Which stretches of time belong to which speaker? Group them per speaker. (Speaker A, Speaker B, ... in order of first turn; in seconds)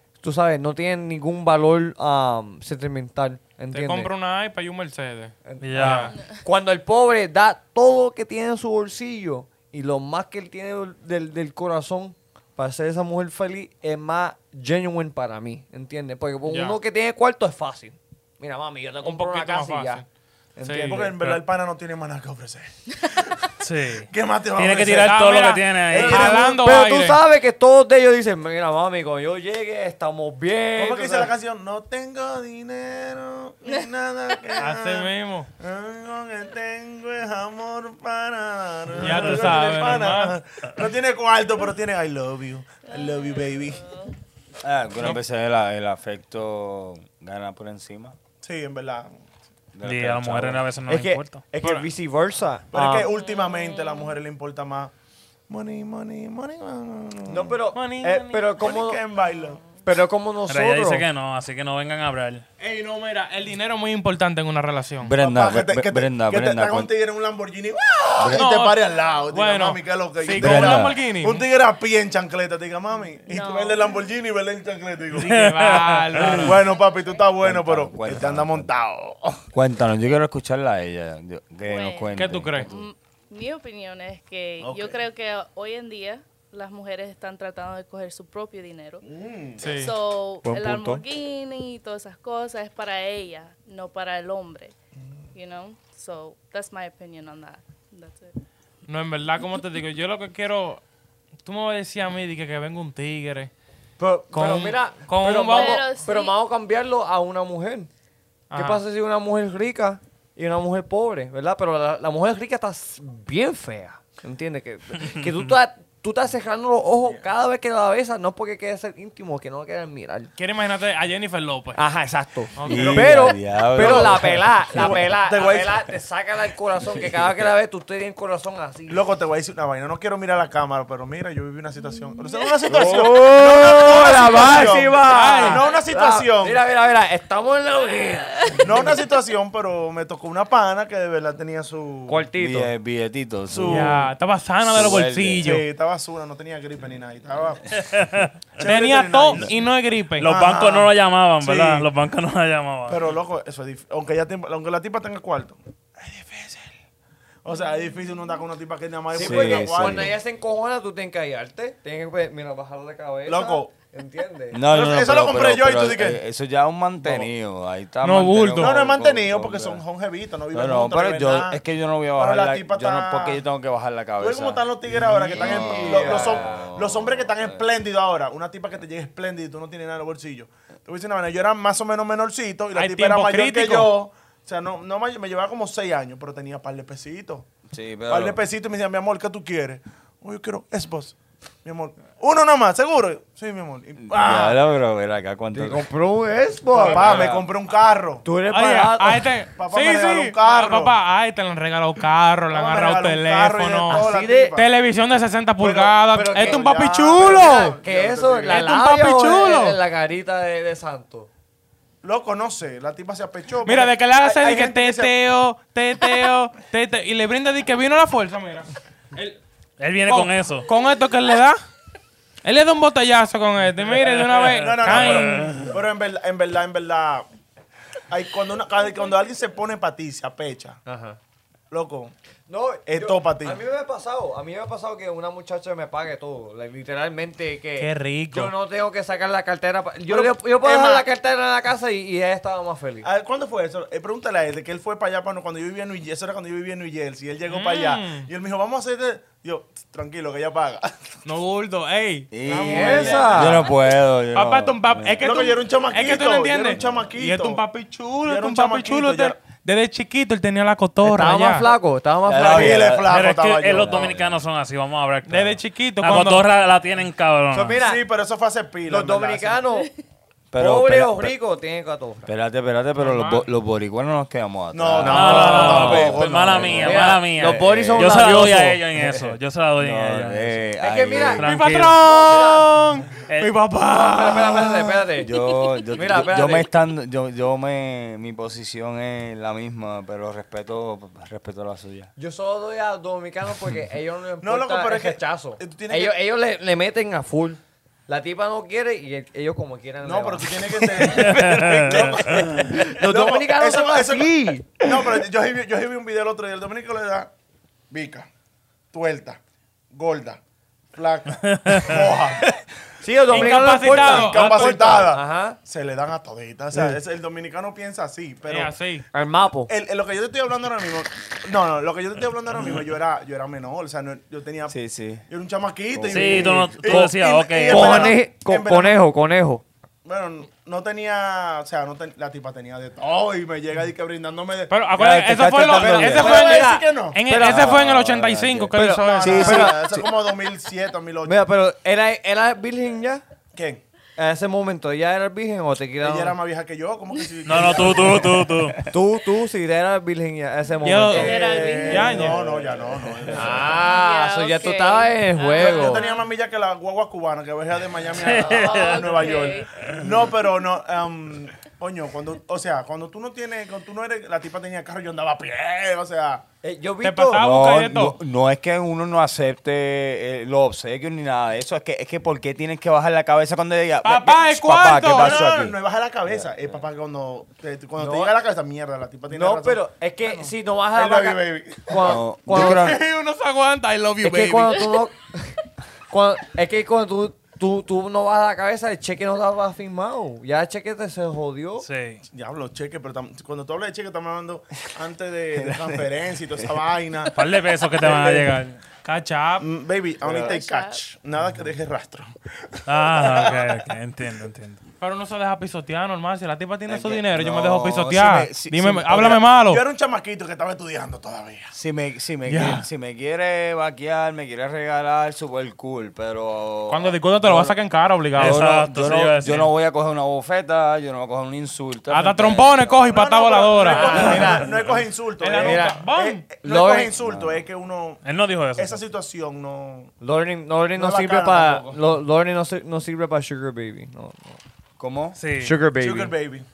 Speaker A: 0.2-4.1, 5.4-20.0, 20.6-21.3, 25.9-31.3, 50.9-53.1, 57.2-59.0, 59.8-61.1, 90.4-91.0, 104.0-107.9, 108.5-120.3, 121.8-129.0, 132.7-139.0, 142.1-142.7, 159.1-164.6, 175.3-176.5, 195.5-197.3, 198.2-199.3, 203.9-204.6, 206.1-211.3, 230.9-231.2, 232.5-243.1, 252.5-253.7, 261.0-262.9, 267.5-268.0, 268.9-269.9, 270.6-272.3, 275.4-278.8, 280.8-282.7, 283.9-285.3, 285.9-286.7, 292.2-301.3, 302.0-305.1, 313.0-315.6, 319.1-319.7, 327.7-329.6, 335.6-337.8, 338.7-340.0, 341.2-343.2, 344.2-346.4, 348.9-352.2, 353.3-356.0, 366.6-367.4, 378.0-378.3, 379.3-383.0, 384.2-385.6, 386.1-391.9, 423.9-424.7, 425.5-426.0, 426.6-427.1, 430.2-434.6, 435.6-436.3
Speaker B: 3.7-6.1, 16.4-16.8, 19.0-20.1, 20.6-21.0, 24.9-27.2, 34.5-35.5, 39.0-40.4, 51.6-51.9, 57.7-58.5, 62.6-65.1, 68.3-71.4, 75.1-76.7, 82.1-82.7, 89.6-89.9, 98.9-100.8, 101.4-103.5, 104.3-105.8, 108.5-108.8, 120.4-121.8, 122.5-123.3, 135.0-135.6, 143.6-145.6, 148.6-150.3, 168.0-168.8, 182.7-183.9, 198.5-204.0, 204.6-207.8, 208.4-209.8, 213.6-219.4, 220.0-221.6, 222.4-225.6, 237.8-238.5, 247.5-248.3, 251.2-252.3, 254.3-261.7, 265.2-266.5, 273.0-273.4, 281.4-284.8, 313.3-315.1, 318.5-319.0, 334.7-339.7, 350.8-352.4, 367.0-368.2, 374.0-375.4, 382.5-384.8, 399.0-399.7, 405.0-409.8, 412.4-412.9, 416.9-419.1, 422.1-424.7, 425.4-426.4
Speaker C: 5.6-6.1, 23.6-26.4, 49.8-51.4, 60.5-62.4, 75.2-76.6, 115.1-115.5, 147.8-148.3, 150.2-153.1, 219.8-220.7, 223.9-225.7, 263.1-267.8, 275.0-280.6, 281.4-282.0, 283.3-283.6, 301.1-302.7, 311.5-312.0, 326.1-328.1, 347.4-348.8, 358.1-359.3, 391.8-392.2, 397.4-398.8, 402.9-404.8, 418.4-419.7, 424.2-425.0, 428.2-429.0, 435.4-435.8
Speaker D: 20.8-25.2, 25.9-26.4, 30.8-43.9, 48.4-49.1, 52.7-54.9, 55.5-57.5, 58.6-59.6, 65.2-75.5, 76.1-79.4, 84.6-85.0, 89.0-89.7, 123.7-125.8, 128.9-136.6, 138.6-142.3, 143.5-144.1, 145.4-147.8, 148.6-149.5, 150.2-151.9, 152.9-156.7, 157.4-160.1, 163.2-163.7, 164.7-166.2, 167.0-167.3, 168.6-171.6, 172.2-173.4, 174.2-187.5, 188.1-194.6, 196.7-198.2, 199.6-200.9, 202.5-204.7, 205.6-208.7, 212.0-215.1, 224.5-227.2, 228.1-230.8, 231.7-232.1, 232.9-233.6, 240.1-241.1, 243.0-251.2, 252.4-253.7, 255.2-257.6, 258.2-259.4, 262.4-264.1, 267.8-269.6, 274.7-276.9, 294.4-296.1, 300.0-304.3, 304.8-307.3, 307.9-308.3, 308.9-309.4, 309.9-310.4, 310.9-312.6, 313.3-318.7, 319.7-324.8, 325.3-329.0, 330.0-334.8, 335.6-337.2, 339.0-341.4, 343.5-343.8, 346.0-348.5, 351.1-353.9, 355.6-366.4, 375.1-382.2, 392.3-397.4, 397.9-398.6, 399.6-403.9, 409.6-411.7, 423.1-428.2, 428.8-430.1, 430.9-432.0, 436.0-436.6
Speaker E: 42.9-44.1, 53.1-54.2, 59.2-59.7, 73.3-74.0, 76.6-77.2, 81.7-89.0, 89.6-94.7, 95.3-98.3, 105.5-106.4, 131.9-132.7, 351.1-352.2, 353.7-356.3, 358.4-359.9, 400.3-401.0
Speaker F: 44.6-48.1, 49.7-50.6, 65.0-66.9, 68.2-68.4, 70.3-71.0, 77.4-78.7, 79.5-82.8, 122.6-125.1, 142.4-144.0, 144.6-145.6, 159.2-160.1, 164.5-169.8, 170.5-177.6, 187.7-188.4, 194.0-195.8, 196.8-197.5, 252.3-255.2, 256.8-257.1, 262.2-263.1, 263.7-264.4, 270.5-271.4, 272.3-281.4, 285.1-292.1, 324.7-325.2, 325.9-326.8, 335.0-336.5, 337.4-340.1, 348.5-348.9, 353.0-353.3, 367.4-375.8, 376.3-376.7, 382.0-383.0, 395.6-396.1, 400.2-400.5, 406.9-409.4, 411.7-417.7, 418.3-422.8, 427.2-427.6, 435.0-435.4